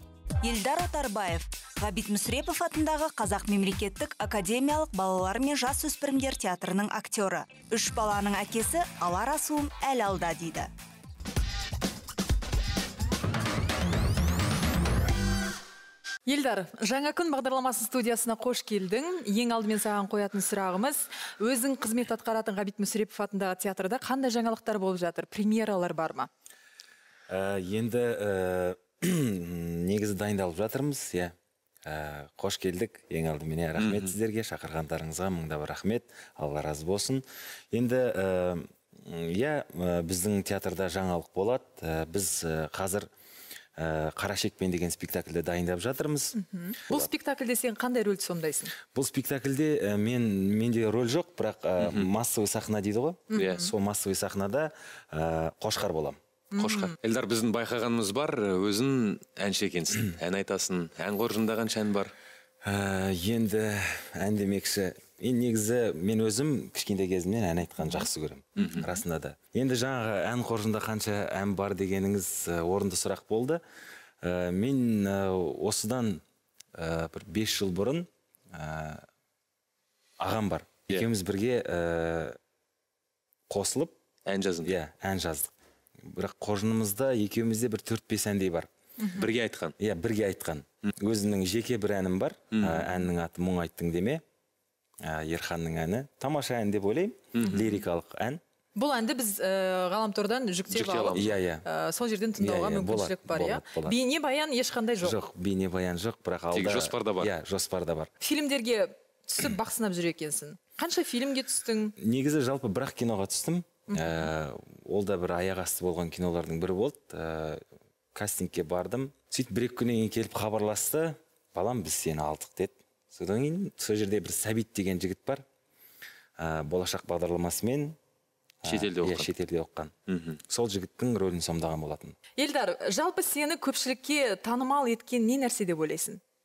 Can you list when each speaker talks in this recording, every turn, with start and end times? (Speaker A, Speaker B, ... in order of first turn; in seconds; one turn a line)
Speaker A: 0.4-10.7
Speaker B: 16.2-26.3
Speaker C: 27.3-31.3
Speaker C: 31.8-43.1
Speaker D: 33.8-34.1
Speaker C: 43.8-46.4
Speaker B: 46.3-48.7
Speaker C: 48.9-56.2
Speaker D: 51.8-52.1
Speaker B: 53.3-53.7
Speaker D: 53.4-53.7
Speaker B: 56.5-56.9
Speaker D: 56.6-62.1
Speaker C: 62.6-73.6
Speaker D: 68.6-68.9
Speaker B: 68.6-69.0
Speaker C: 74.2-76.2
Speaker C: 76.7-79.0
Speaker C: 80.2-82.4
Speaker C: 83.5-83.9
Speaker D: 84.2-84.7
Speaker C: 84.6-85.5
Speaker C: 86.0-88.7
Speaker B: 89.0-89.2
Speaker D: 89.2-89.7
Speaker C: 89.8-94.2
Speaker D: 92.5-92.9
Speaker C: 95.0-98.4
Speaker B: 97.5-97.8
Speaker B: 98.8-105.2
Speaker D: 100.7-101.4
Speaker C: 101.1-101.6
Speaker C: 102.4-104.0
Speaker C: 105.0-108.1
Speaker D: 106.5-107.3
Speaker B: 108.2-111.9
Speaker C: 112.0-117.6
Speaker B: 113.9-114.3
Speaker C: 118.1-125.4
Speaker C: 126.4-128.0
Speaker C: 128.6-129.9
Speaker D: 128.7-129.3
Speaker D: 130.1-130.4
Speaker C: 130.5-132.2
Speaker B: 132.4-136.2